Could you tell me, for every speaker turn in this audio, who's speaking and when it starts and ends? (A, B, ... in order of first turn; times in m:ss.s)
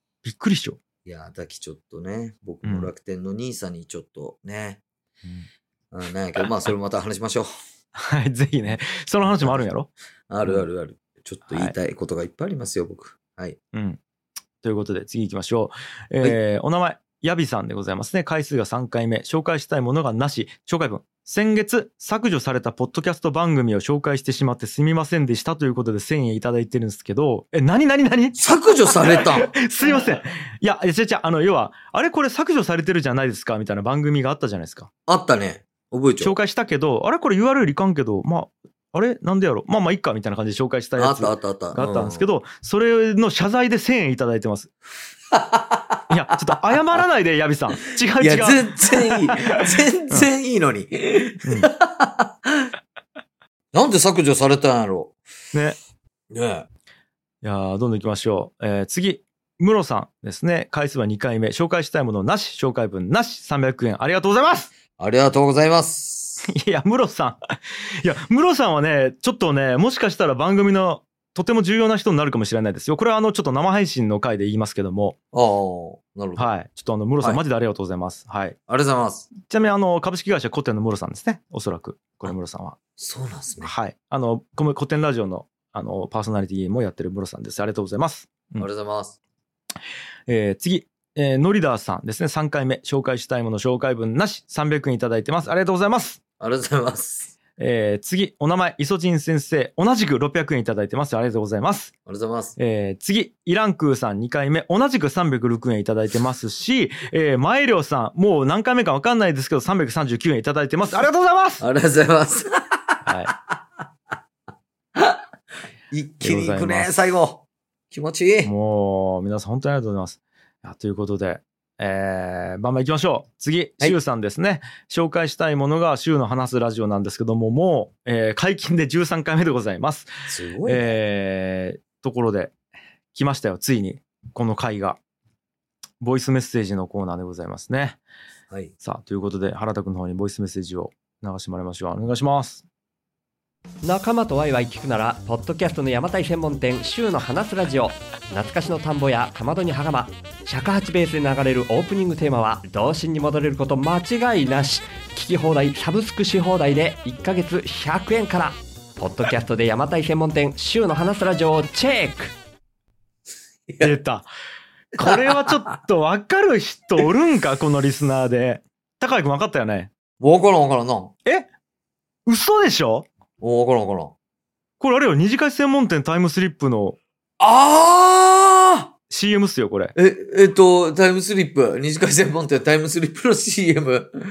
0:00.2-0:00.8 A
0:01.0-0:04.8 B
0:02.6-0:02.9 A
0:05.9-0:07.5 B
0:08.0-0:09.9 A
0:08.6-0:09.6 B
0:10.3-0:13.6 B
0:11.5-0:11.7 A
0:13.7-0:14.0 A
0:14.6-0:34.9 A
0:28.3-0:29.5 B
0:35.1-0:36.3 B
0:36.2-0:44.7 A
0:41.0-0:42.3 B
0:45.3-0:46.8 B
0:46.1-0:49.4 A
0:48.2-0:52.7 B
0:51.4-0:51.7 A
0:53.7-0:55.2 B
0:56.3-0:56.7 B
0:57.4-1:04.7 A
1:05.0-1:06.5 B
1:06.4-1:07.4 A
1:08.0-1:15.2 A
1:15.3-1:16.5 B
1:16.4-1:18.6 A
1:18.7-1:19.3 B
1:19.4-1:22.8 A
1:23.0-1:23.7 B
1:23.6-1:28.7 A
1:28.6-1:29.2 B
1:30.3-1:36.2 A
1:36.4-1:37.3 B
1:37.6-1:41.9 A
1:42.0-1:42.5 B
1:42.6-1:51.6 A
1:51.6-1:52.9 B
1:53.0-1:53.3 A
1:55.9-1:58.5 B
1:56.2-1:57.0 A
1:58.4-2:10.1 A
2:10.3-2:11.0 B
2:10.6-2:12.5 A
2:13.1-2:15.0 A
2:16.0-2:18.0 A
2:18.8-2:22.6 A
2:23.8-2:42.3 C
2:43.7-2:44.0 B
2:43.8-2:44.3 A
2:45.0-2:49.9 A
2:45.0-2:45.5 B
2:50.2-2:51.1 B
2:52.2-2:53.0 A
2:53.4-2:54.1 B
2:54.8-2:57.0 A
2:57.4-2:58.9 B
2:59.1-2:59.9 A
2:59.9-3:04.1 B